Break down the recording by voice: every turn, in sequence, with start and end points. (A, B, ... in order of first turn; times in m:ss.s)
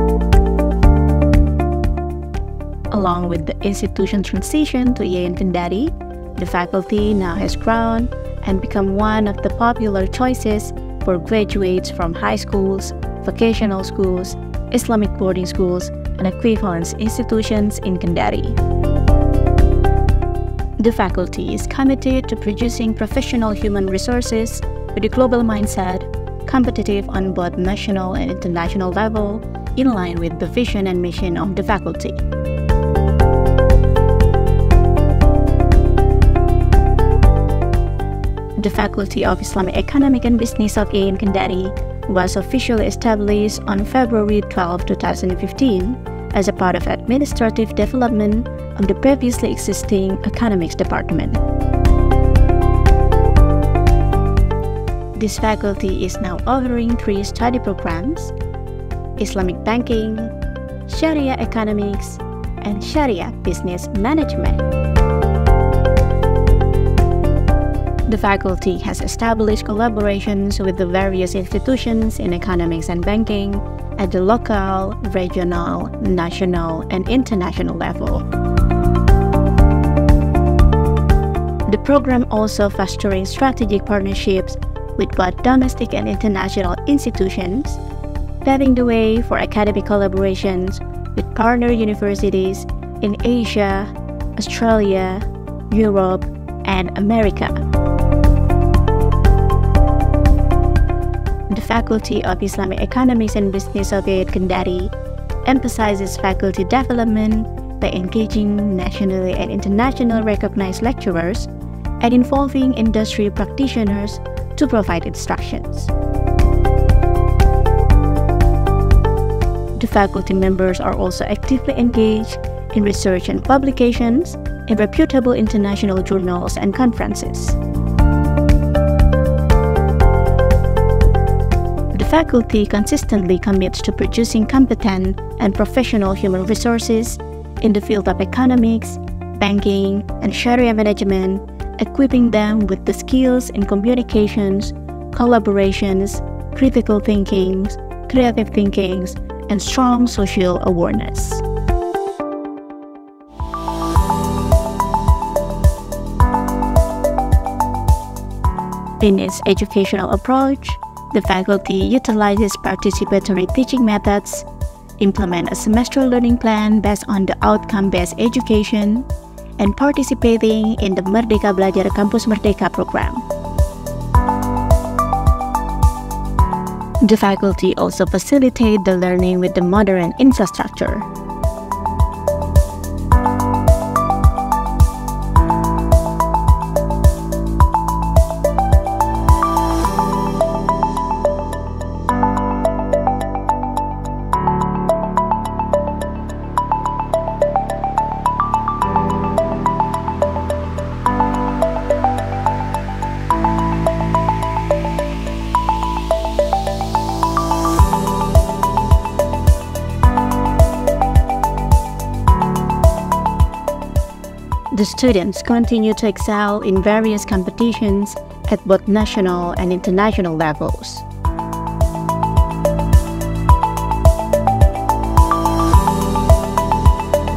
0:02.9-0:18.6 A
0:20.8-0:32.2 A
0:38.6-0:51.4 A
0:55.2-0:58.3 A
0:59.2-1:00.3 A
1:00.8-1:04.6 A
1:08.1-1:18.3 A
1:21.6-1:27.8 A
1:28.4-1:37.6 A
1:41.5-1:44.9 A
1:45.4-1:51.5 A
1:52.0-1:55.9 A
1:59.7-2:07.6 A
2:11.9-2:31.4 A
2:39.0-2:44.4 A
2:45.0-2:53.2 A
2:57.0-3:01.1 A
3:34.7-3:41.0 A